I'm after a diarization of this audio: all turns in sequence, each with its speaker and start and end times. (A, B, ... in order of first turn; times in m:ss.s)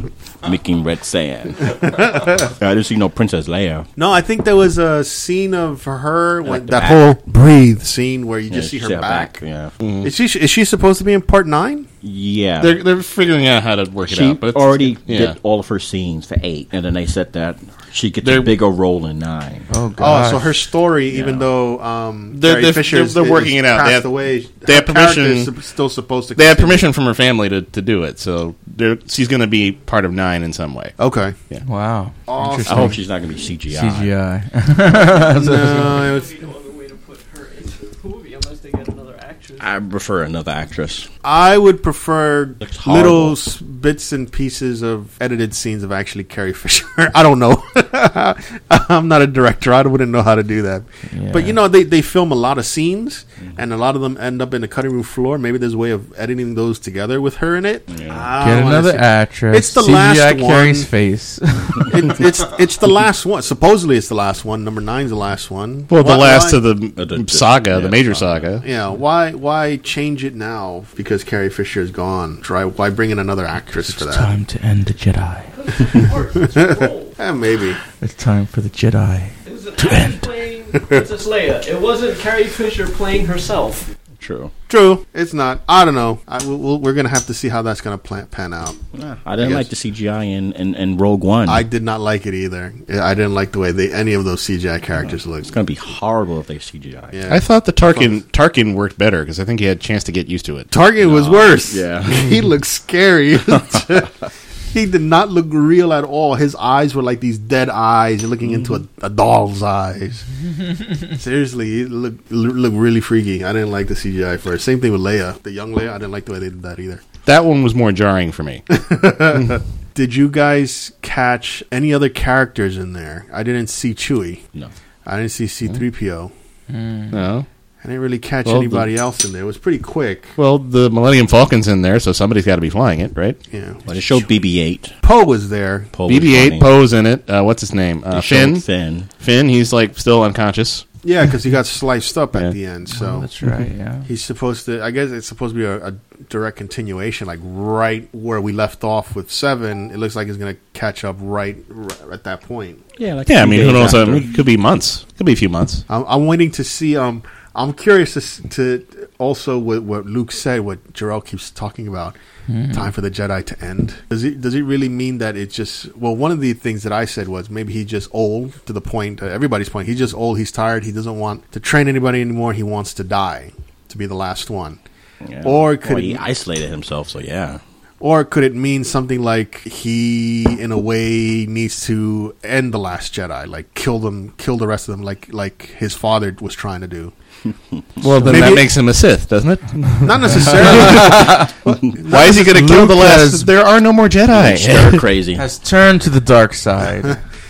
0:00.4-0:03.9 A
0:01.9-0:02.3 B
0:04.0-0:09.4 B
0:06.4-0:07.0 A
0:08.5-0:09.7 A
0:09.8-0:10.1 C
0:10.0-0:11.9 B
0:12.0-0:12.8 A
0:12.6-0:15.4 C
0:14.0-0:19.7 A
0:18.2-0:18.5 C
0:19.7-0:20.6 D
0:20.0-0:26.8 B
0:21.1-0:21.5 A
0:22.3-0:25.5 C
0:26.3-0:30.9 C
0:31.0-0:31.4 B
0:31.6-0:32.9 D
0:32.3-0:33.0 B
0:32.6-0:34.1 A
0:33.7-0:36.1 D
0:35.2-0:36.4 B
0:35.6-0:39.7 E
0:39.6-0:41.1 A
0:41.2-1:00.9 B
0:42.6-0:43.4 A
0:51.1-0:51.6 D
0:57.9-0:58.3 A
0:58.4-1:02.3 D
1:01.8-1:06.6 B
1:05.9-1:08.6 C
1:07.0-1:08.6 A
1:08.6-1:14.3 B
1:13.8-1:15.5 D
1:15.5-1:17.2 E
1:16.5-1:17.8 B
1:18.0-1:20.2 D
1:19.4-1:23.9 E
1:24.2-1:24.5 A
1:24.7-1:28.8 B
1:28.9-1:31.6 A
1:29.4-1:29.7 B
1:31.5-1:35.5 B
1:35.0-1:37.2 A
1:37.1-1:38.2 B
1:37.3-1:40.7 C
1:40.7-1:44.1 B
1:41.0-1:42.3 A
1:44.7-1:50.3 B
1:51.1-1:57.0 B
1:57.2-1:58.6 C
1:58.7-2:04.4 B
2:05.0-2:06.3 B
2:06.7-2:07.2 D
2:07.1-2:07.4 C
2:07.8-2:10.3 B
2:08.4-2:08.9 C
2:10.4-2:13.4 C
2:13.5-2:14.2 B
2:13.8-2:14.9 A
2:15.0-2:15.9 B
2:15.9-2:16.7 A
2:16.1-2:18.6 C
2:18.1-2:19.1 A
2:19.2-2:20.8 C
2:21.0-2:23.3 B
2:22.9-2:24.1 D
2:24.0-2:32.8 B
2:33.0-2:34.3 A
2:33.2-2:35.8 C
2:35.9-2:42.2 B
2:42.5-2:42.9 D
2:42.7-2:54.8 B
2:55.2-2:57.6 A
2:55.4-2:56.2 B
2:58.0-3:07.1 B
3:07.7-3:08.5 A
3:08.0-3:11.5 C
3:08.2-3:08.7 B
3:10.0-3:12.7 B
3:10.5-3:11.4 D
3:12.1-3:15.0 C
3:12.3-3:13.4 D
3:14.3-3:15.4 A
3:15.4-3:17.2 D